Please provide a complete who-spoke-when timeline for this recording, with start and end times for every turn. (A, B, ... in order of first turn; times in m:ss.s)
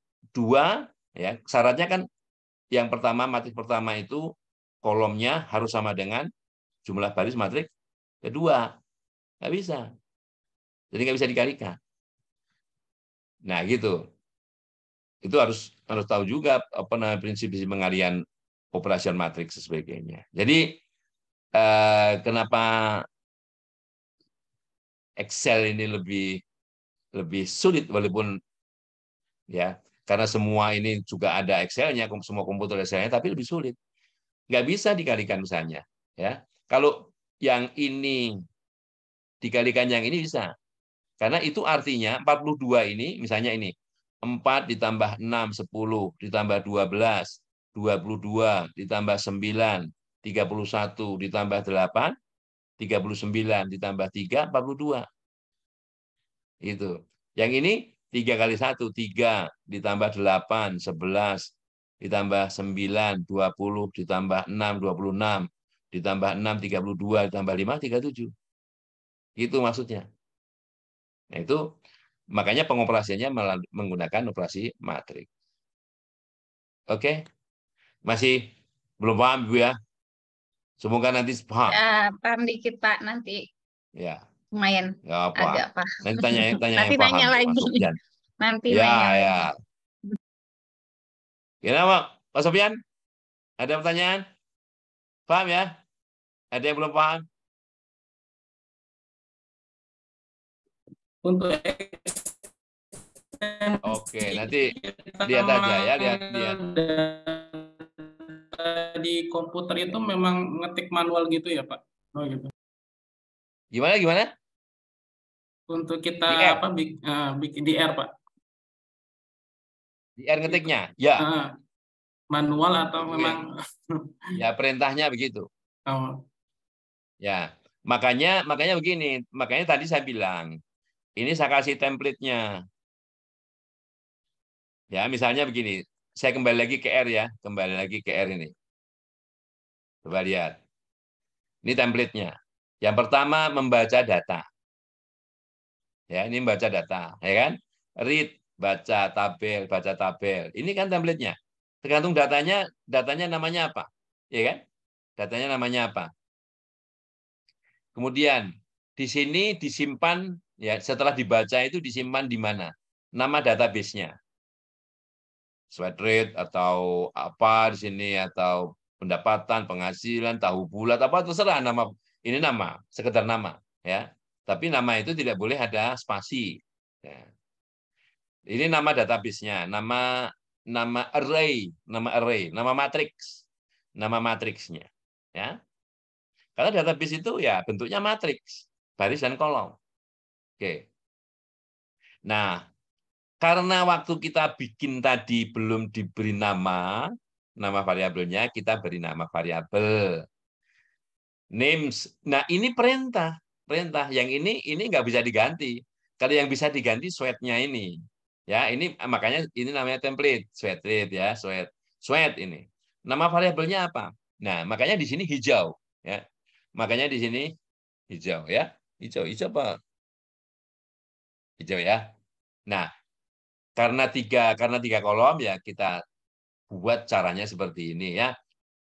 0:00.4-0:02.1 A
0:02.7-0:04.3 A
0:04.8-0:06.3 A
0:06.9-0:07.7 A
0:08.2-0:08.7 A
0:09.4-0:09.9 A
0:10.9-0:11.8 A
0:13.5-0:14.0 A
0:15.2-0:18.2 A
0:18.7-0:20.8 A
0:21.6-0:23.0 A
0:25.2-0:26.4 A
0:27.2-0:28.4 A
0:29.5-0:33.8 A
0:34.5-0:38.4 A
0:39.4-0:40.5 A
0:41.2-0:43.7 A
0:44.2-0:52.1 A
0:52.8-0:55.1 A
0:56.6-1:08.3 A
1:09.4-1:10.1 A
1:11.3-1:11.6 A
1:12.3-1:15.3 A
1:16.9-1:17.2 A
1:18.1-1:18.5 A
1:19.0-1:19.8 A
1:20.8-1:21.8 A
1:21.7-1:23.5 B
1:24.0-1:24.2 A
1:24.5-1:27.8 B
1:25.0-1:28.0 A
1:28.4-1:29.5 B
1:28.7-1:29.6 A
1:31.6-1:32.8 A
1:33.6-1:34.2 A
1:35.3-1:35.7 A
1:36.5-1:37.2 A
1:41.2-1:42.3 C
1:43.4-1:52.5 C
1:43.8-1:44.7 A
1:45.2-1:46.6 A
1:53.7-1:54.3 A
1:55.7-1:58.1 C
1:56.3-1:56.6 A
2:00.2-2:01.3 A
2:00.5-2:01.5 C
2:02.3-2:04.4 C
2:03.0-2:03.4 A
2:04.4-2:05.5 A
2:05.9-2:06.2 C
2:07.2-2:10.6 A
2:11.2-2:12.6 A
2:14.9-2:18.5 A
2:20.0-2:20.6 A
2:21.6-2:24.4 A
2:26.1-2:34.6 A
2:35.2-2:36.1 A
2:38.0-2:44.2 A
2:45.7-2:57.3 A
2:58.5-3:03.4 A
3:04.0-3:05.6 A
3:06.6-3:09.8 A
3:10.6-3:10.9 A
3:12.3-3:12.6 A
3:13.4-3:20.2 A
3:21.6-3:36.2 A
3:36.8-3:37.5 A
3:38.1-3:39.8 A
3:41.6-3:42.0 A
3:43.8-3:46.0 A
3:46.7-3:48.3 A